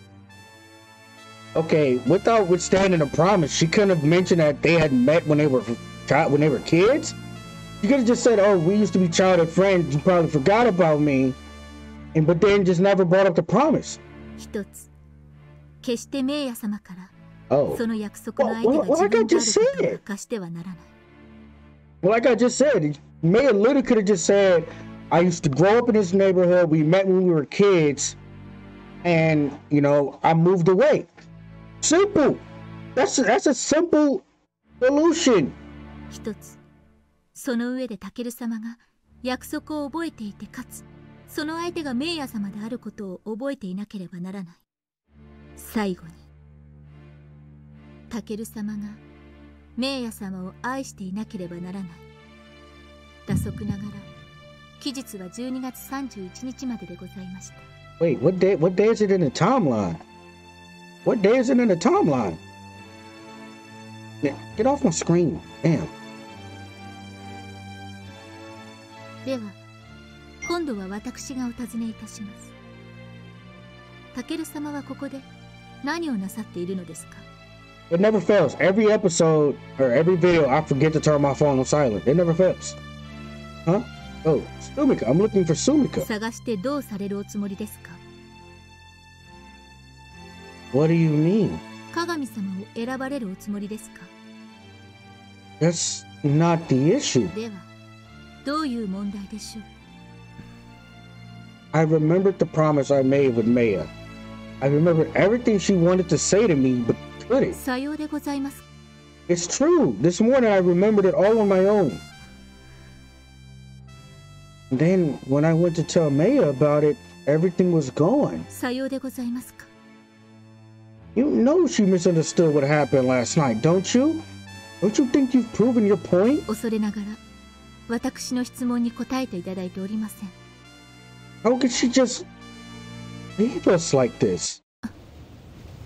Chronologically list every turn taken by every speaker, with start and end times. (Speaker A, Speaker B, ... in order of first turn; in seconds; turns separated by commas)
Speaker A: 1.5-7.2, Speaker A: 7.8-11.4, Speaker A: 12.1-14.0, Speaker B: 14.4-14.9, Speaker B: 15.8-17.1, Speaker A: 17.5-17.8, Speaker B: 17.7-20.9, Speaker A: 18.4-20.0, Speaker A: 22.0-28.1, Speaker A: 29.0-31.1, Speaker A: 31.8-32.4, Speaker A: 33.0-34.2, Speaker A: 34.8-35.5, Speaker B: 36.1-36.6, Speaker B: 37.3-44.6, Speaker B: 45.5-46.3, Speaker B: 48.1-49.0, Speaker B: 49.8-52.0, Speaker B: 53.3-54.1, Speaker B: 54.8-57.6, Speaker A: 58.0-60.0, Speaker A: 61.0-62.4, Speaker A: 64.2-65.9, Speaker B: 69.2-69.6, Speaker B: 70.4-72.5, Speaker B: 74.1-75.3, Speaker B: 75.8-77.2, Speaker A: 77.9-82.8, Speaker A: 83.7-86.1, Speaker B: 86.0-88.0, Speaker A: 90.7-91.6, Speaker B: 91.9-94.1, Speaker A: 95.6-97.3, Speaker B: 97.3-97.7, Speaker B: 98.4-99.7, Speaker A: 101.7-103.9, Speaker A: 104.6-107.6, Speaker B: 107.5-108.6, Speaker A: 109.3-112.0, Speaker A: 114.7-118.5, Speaker B: 118.5-119.7, Speaker A: 121.1-124.2, Speaker A: 124.8-126.5, Speaker B: 126.5-127.2, Speaker B: 127.9-130.3, Speaker A: 131.4-132.2, Speaker A: 133.4-134.6